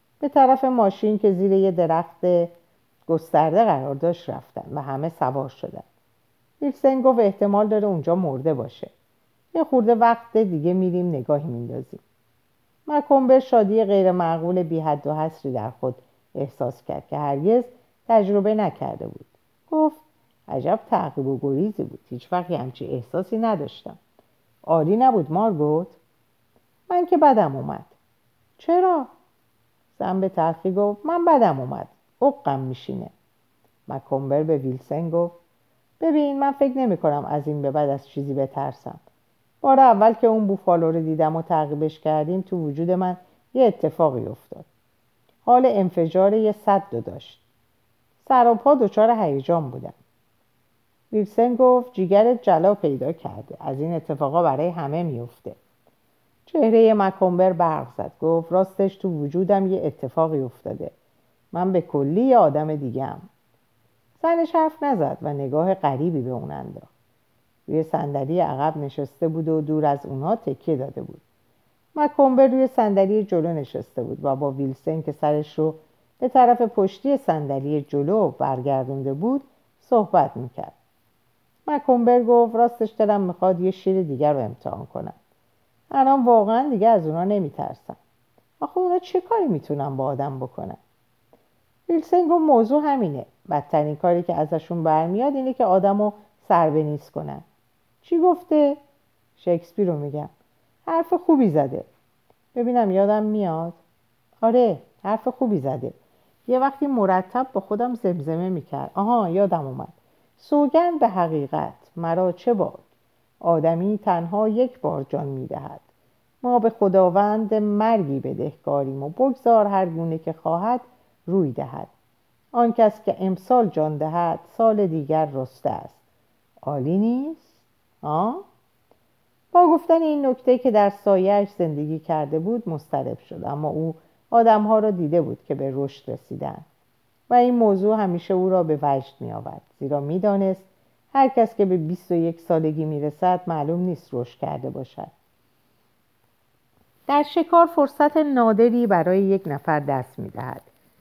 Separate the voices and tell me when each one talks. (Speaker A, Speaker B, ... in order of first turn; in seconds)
Speaker A: 0.2-2.5, 3.1-5.8, 6.6-8.9, 9.5-12.0, 12.9-24.0, 24.6-26.0, 26.9-27.9, 28.6-29.1, 29.9-33.1, 33.9-35.4, 36.0-39.0, 39.6-44.7, 45.4-47.4, 48.2-50.0, 51.1-55.6, 56.5-60.9, 61.5-63.2, 64.2-66.9, 67.7-71.2, 72.0-80.7, 81.7-85.2, 85.9-88.0, 88.6-90.8, 91.9-97.4, 98.0-98.8, 99.4-100.3, 100.9-101.9, 102.5-103.8, 104.4-106.0, 106.5-112.8, 113.4-115.8, 116.4-121.9, 122.5-126.0, 126.6-127.5, 128.0-128.4, 129.5-136.6, 137.3-145.1, 147.1-150.7